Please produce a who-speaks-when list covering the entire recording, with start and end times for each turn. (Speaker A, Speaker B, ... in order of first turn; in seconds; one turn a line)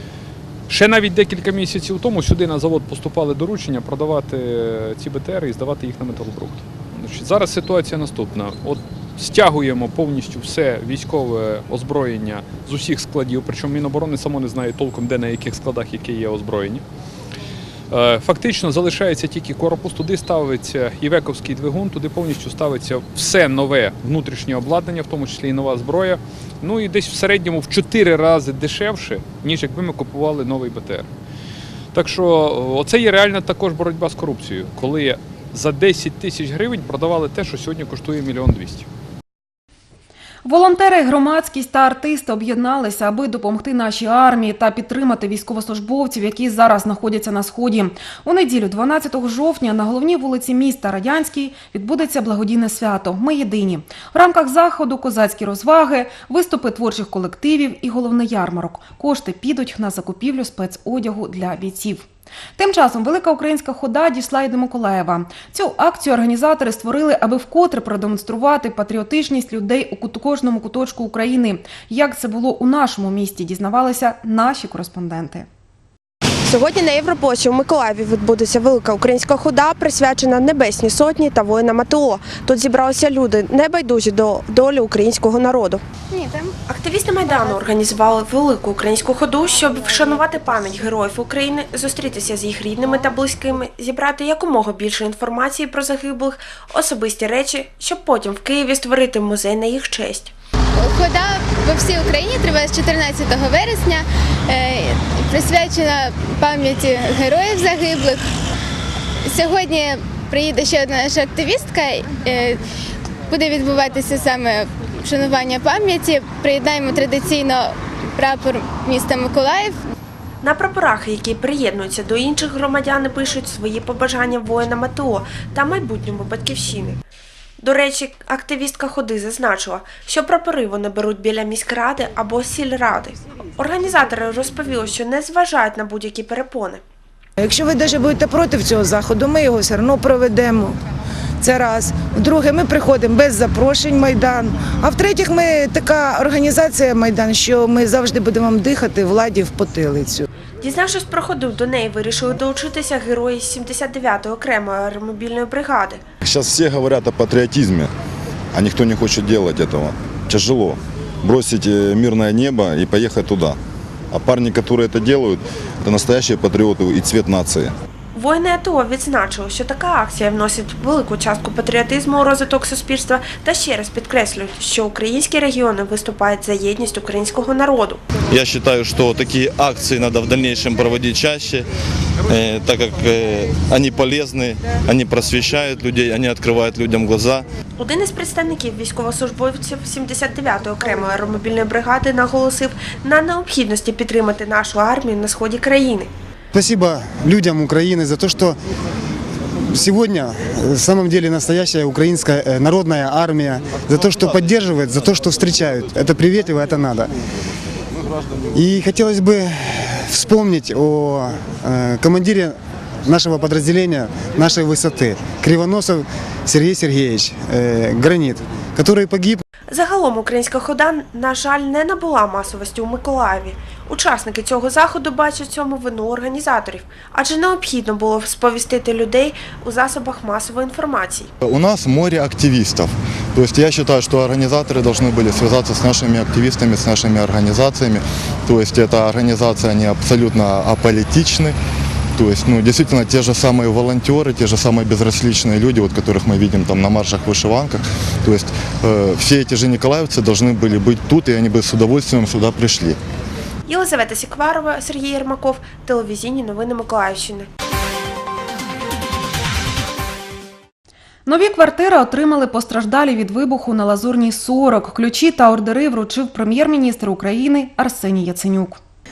Speaker A: 0.7-16.8
Speaker A: 17.9-31.1
Speaker A: 31.9-38.9
Speaker B: 40.5-75.5
Speaker C: 76.4-85.8
Speaker D: 86.1-86.5
Speaker C: 86.7-100.3
Speaker D: 100.8-108.2
Speaker D: 109.2-112.6
Speaker D: 113.3-119.8
Speaker C: 120.4-127.0
Speaker C: 127.6-136.8
Speaker E: 137.4-140.8
Speaker E: 141.4-150.2
Speaker C: 150.6-156.0
Speaker F: 156.2-157.9
Speaker F: 158.5-163.6
Speaker F: 164.1-167.7
Speaker C: 168.1-178.0
Speaker G: 178.3-181.6
Speaker G: 182.3-187.4
Speaker C: 187.8-196.1
Speaker H: 196.5-198.6
Speaker H: 199.7-207.1
Speaker H: 208.5-219.4
Speaker C: 219.7-231.3
Speaker F: 231.4-241.5
Speaker F: 242.2-253.0
Speaker C: 253.7-257.5
Speaker B: 261.2-268.8